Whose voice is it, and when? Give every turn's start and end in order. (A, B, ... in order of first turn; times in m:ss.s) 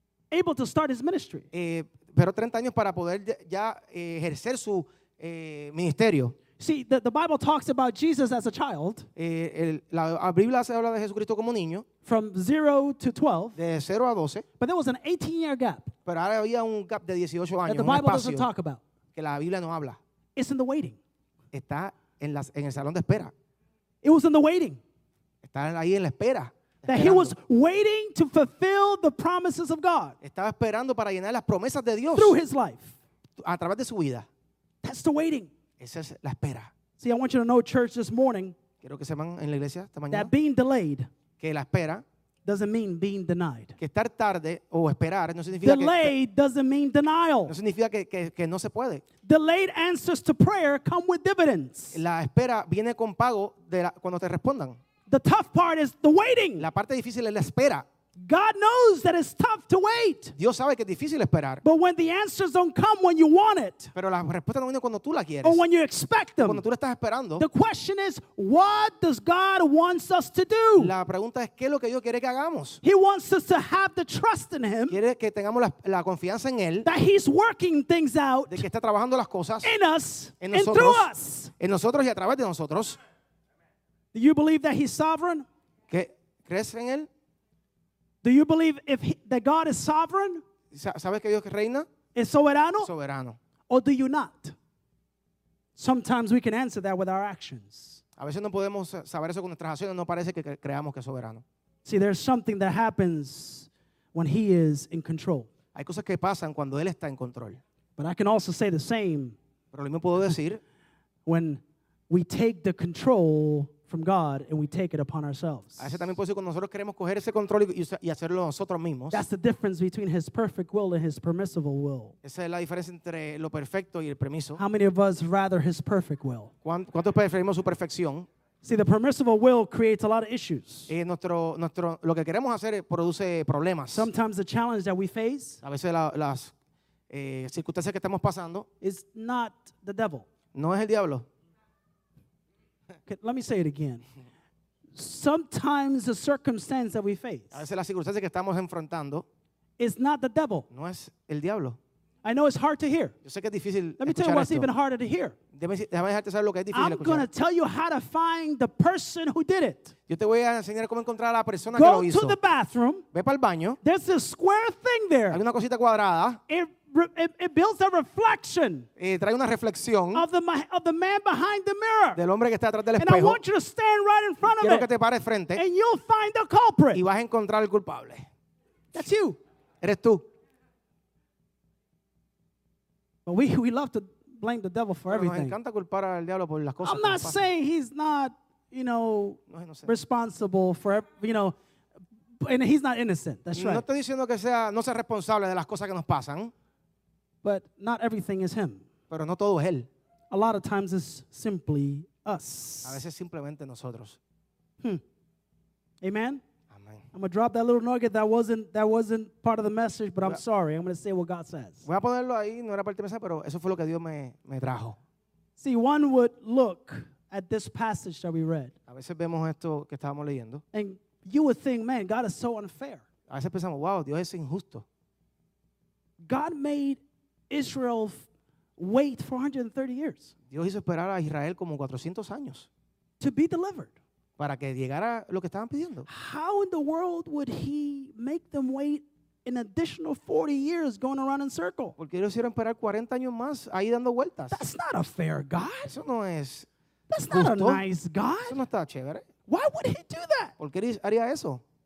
0:00.3-0:01.5 A
0:01.5-0:06.4 B
0:06.6-0:09.1 A
0:09.2-0:11.9 B
0:12.0-0:13.6 A
0:13.6-0:14.5 B
0:14.6-0:15.9 A
0:16.1-0:18.5 B
0:17.7-0:18.8 A
0:19.2-0:20.0 B
0:20.4-0:21.0 A
0:21.5-0:23.3 B
0:24.0-0:24.8 A
0:25.4-0:27.4 B
0:26.8-0:30.2 A
0:30.2-0:32.4 B
0:32.1-0:33.0 A
0:33.4-0:34.3 B
0:34.8-0:35.5 A
0:35.8-0:36.7 B
0:37.0-0:38.6 A
0:38.8-0:40.3 B
0:40.1-0:41.1 A
0:41.4-0:42.0 B
0:42.4-0:43.8 A
0:43.8-0:46.1 B
0:45.6-0:47.6 A
0:47.5-0:49.0 B
0:49.2-0:52.0 A
0:51.9-0:54.8 B
0:55.1-0:56.7 A
0:56.6-0:57.9 B
0:58.2-1:00.3 A
1:00.4-1:01.6 B
1:01.6-1:03.9 A
1:04.0-1:05.6 B
1:05.4-1:06.6 A
1:06.4-1:07.5 B
1:07.4-1:10.9 A
1:10.8-1:12.8 B
1:12.8-1:15.0 A
1:14.9-1:16.9 B
1:16.8-1:18.7 A
1:18.5-1:19.7 B
1:19.6-1:21.5 A
1:20.4-1:23.0 B
1:24.1-1:25.5 A
1:25.9-1:27.1 B
1:28.2-1:30.4 A
1:30.7-1:31.9 B
1:32.2-1:32.9 A
1:32.8-1:33.4 B
1:33.7-1:34.6 A
1:35.8-1:38.0 A
1:38.2-1:41.4 B
1:41.8-1:45.5 A
1:45.7-1:47.6 B
1:48.0-1:49.4 A
1:49.7-1:50.6 B
1:51.3-1:56.1 A
1:55.8-1:59.2 B
1:59.1-2:02.2 A
2:02.2-2:04.6 B
2:04.6-2:06.5 A
2:06.6-2:08.3 B
2:08.6-2:10.9 A
2:10.9-2:14.1 B
2:13.9-2:15.6 A
2:15.6-2:16.5 B
2:17.1-2:18.7 B
2:18.8-2:20.3 A
2:20.5-2:21.3 B
2:23.1-2:24.0 A
2:25.0-2:27.6 A
2:27.5-2:29.2 B
2:29.8-2:30.7 A
2:30.7-2:31.8 B
2:32.2-2:33.2 A
2:33.2-2:34.7 B
2:34.0-2:35.4 A
2:35.5-2:37.3 B
2:36.7-2:39.9 A
2:40.1-2:42.4 B
2:41.7-2:43.0 A
2:43.1-2:43.8 B
2:43.8-2:45.4 A
2:45.3-2:46.4 B
2:46.5-2:48.9 A
2:49.0-2:50.3 B
2:50.1-2:52.2 A
2:52.2-2:53.4 B
2:53.0-2:54.9 A
2:54.5-2:55.6 B
2:55.6-2:57.0 A
2:56.9-2:58.3 B
2:58.9-2:59.4 A
2:59.8-3:00.3 B
3:03.3-3:05.6 A
3:05.1-3:07.5 B
3:06.8-3:11.6 A
3:09.5-3:09.9 B
3:12.4-3:13.8 A
3:13.5-3:16.5 B
3:17.4-3:18.8 A
3:19.1-3:19.9 B
3:20.3-3:23.0 A
3:22.8-3:24.2 B
3:26.0-3:26.4 A
3:26.7-3:27.1 B
3:27.1-3:31.8 A
3:31.8-3:35.0 B
3:35.6-3:38.8 A
3:38.9-3:40.6 B
3:40.7-3:43.0 A
3:43.3-3:44.8 B
3:46.2-3:50.3 A
3:50.5-3:52.7 B
3:53.2-3:54.0 A
3:54.4-3:56.1 B
3:56.1-4:02.0 A
4:02.0-4:04.6 B
4:04.5-4:06.0 A
4:05.9-4:06.7 B
4:07.1-4:08.6 A
4:07.3-4:07.8 B
4:08.5-4:09.3 B
4:09.5-4:10.5 A
4:10.6-4:11.6 B